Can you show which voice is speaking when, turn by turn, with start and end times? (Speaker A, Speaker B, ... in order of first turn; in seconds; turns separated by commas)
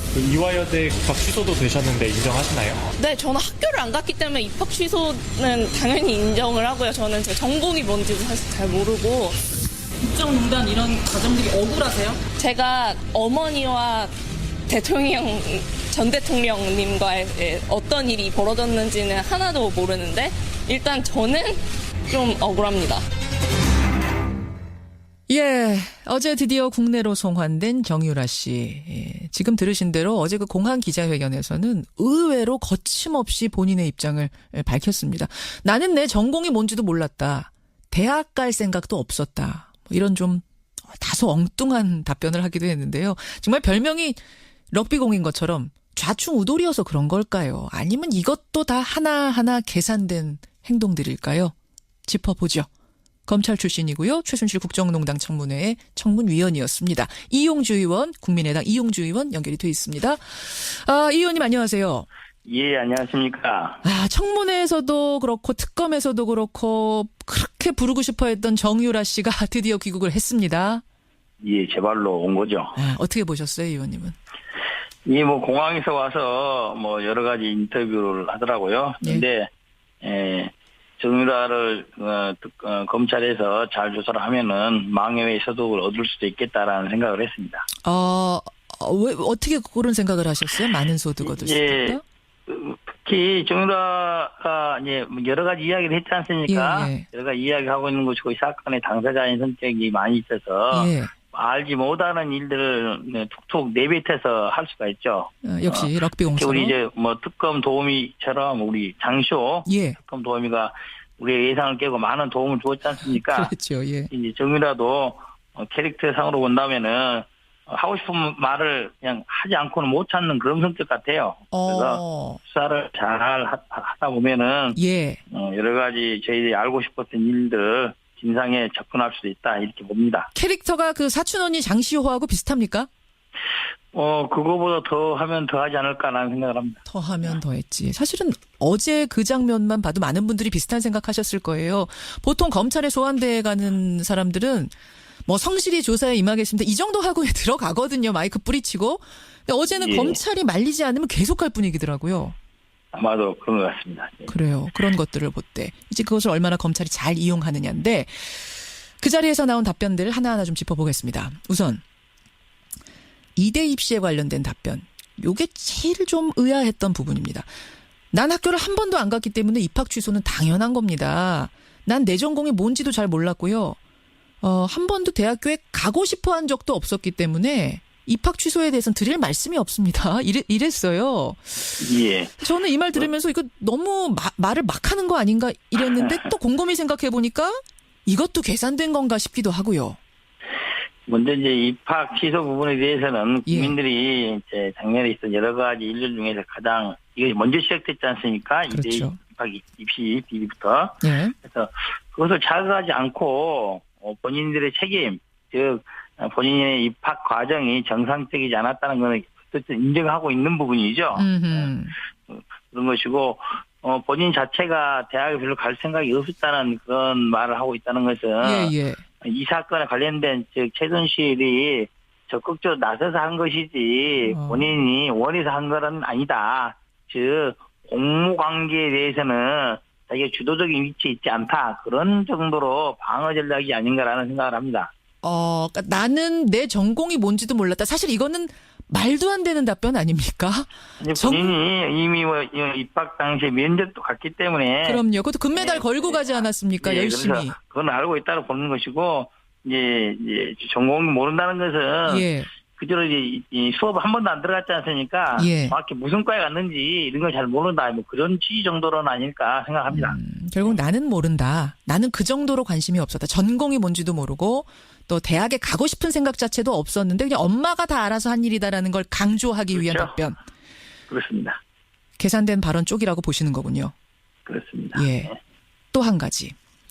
Speaker A: 0.2-2.8, Speaker B: 3.0-9.4, Speaker C: 10.0-12.3, Speaker B: 12.3-14.1, Speaker B: 14.7-21.6, Speaker B: 22.1-23.0, Speaker D: 25.3-44.2, Speaker D: 44.7-51.5, Speaker D: 52.0-52.7, Speaker D: 53.3-62.1, Speaker E: 62.4-63.8, Speaker D: 63.8-70.8, Speaker E: 71.4-72.8, Speaker D: 72.8-74.2, Speaker E: 75.0-79.5, Speaker E: 80.0-87.7, Speaker D: 87.8-92.0, Speaker E: 91.2-113.5, Speaker D: 96.5-97.0, Speaker D: 100.7-101.1, Speaker D: 105.4-106.8, Speaker D: 109.7-110.0, Speaker D: 113.0-114.1, Speaker E: 114.1-124.8, Speaker D: 121.5-122.4, Speaker D: 124.7-125.2, Speaker E: 125.3-130.3, Speaker D: 130.3-132.9, Speaker E: 133.9-137.4, Speaker D: 136.9-144.7, Speaker D: 145.2-152.3, Speaker E: 149.8-150.2, Speaker E: 152.9-154.3, Speaker D: 154.3-161.8, Speaker D: 163.3-167.5, Speaker D: 168.1-173.8, Speaker D: 174.4-181.9, Speaker E: 181.8-182.4, Speaker D: 182.4-190.0, Speaker E: 186.0-186.3, Speaker E: 191.1-211.7, Speaker D: 193.5-193.8, Speaker D: 198.7-199.2, Speaker D: 201.0-201.3, Speaker D: 211.2-211.9, Speaker E: 212.3-234.9, Speaker D: 218.4-219.0, Speaker D: 224.3-224.8, Speaker D: 235.2-241.5, Speaker E: 241.0-245.0, Speaker D: 244.8-247.6, Speaker E: 245.5-260.8, Speaker D: 252.1-252.5, Speaker D: 255.3-255.7, Speaker D: 259.9-270.4, Speaker E: 269.7-270.1, Speaker E: 271.1-271.6, Speaker D: 272.2-273.9, Speaker E: 274.5-275.4, Speaker D: 274.9-275.3, Speaker D: 275.9-276.5